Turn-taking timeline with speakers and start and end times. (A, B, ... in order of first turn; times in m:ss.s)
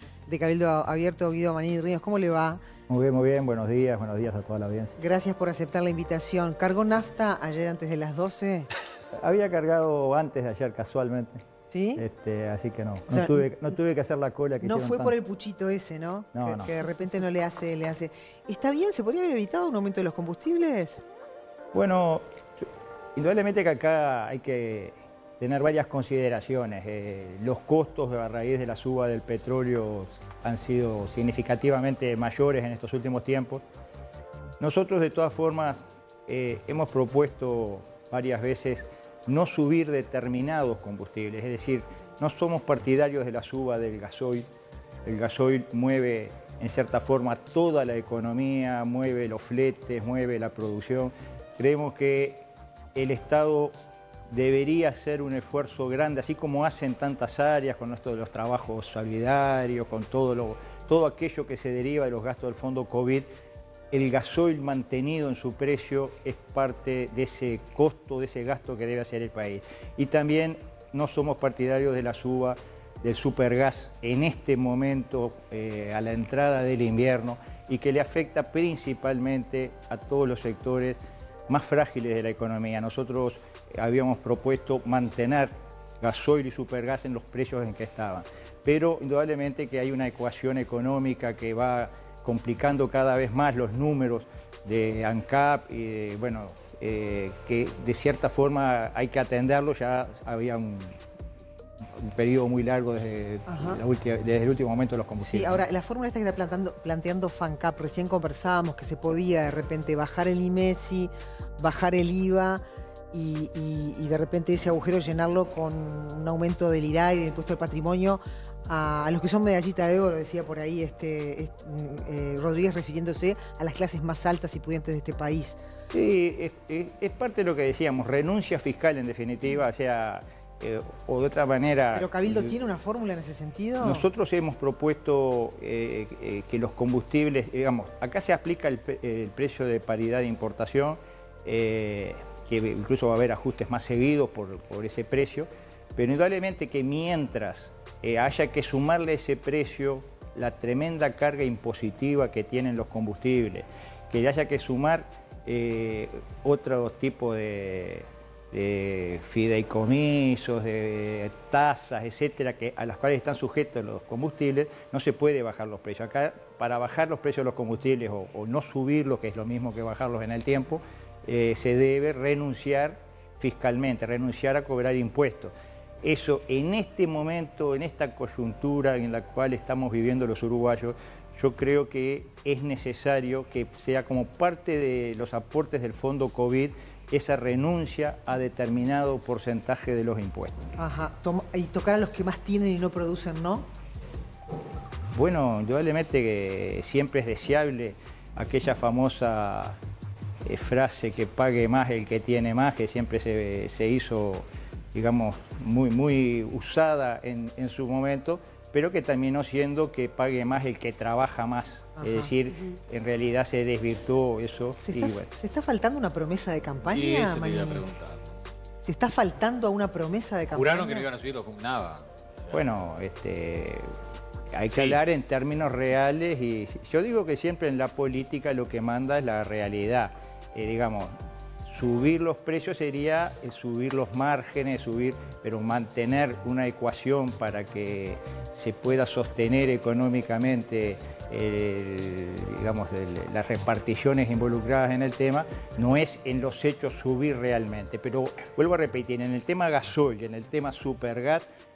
0:00.3-0:02.6 A
0:02.9-0:05.0 B
0:05.0-0:08.7 A
0:09.1-0:11.4 B
0:11.7-0:12.0 A
0:12.0-0:15.1 B
0:13.1-0:13.4 A
0:14.6-0:21.0 A
0:16.3-0:16.7 B
0:21.7-0:33.6 B
0:34.6-0:44.5 B
0:45.0-0:53.7 B
0:54.3-1:03.3 B
1:03.9-1:41.0 B
1:42.0-1:45.6 B
1:43.5-1:43.8 A
1:45.2-2:05.6 A
2:05.9-2:12.5 B
2:11.9-2:14.0 A
2:13.8-3:10.7 B
3:10.8-3:13.7 A
3:15.2-3:19.8 B
3:20.4-3:35.3 B
3:32.0-3:32.3 A
3:34.8-3:37.9 A
3:36.8-3:38.4 C
3:38.8-3:41.1 A
3:40.5-3:42.6 C
3:42.5-3:43.9 B
3:44.5-4:11.5 B
3:44.7-3:45.0 C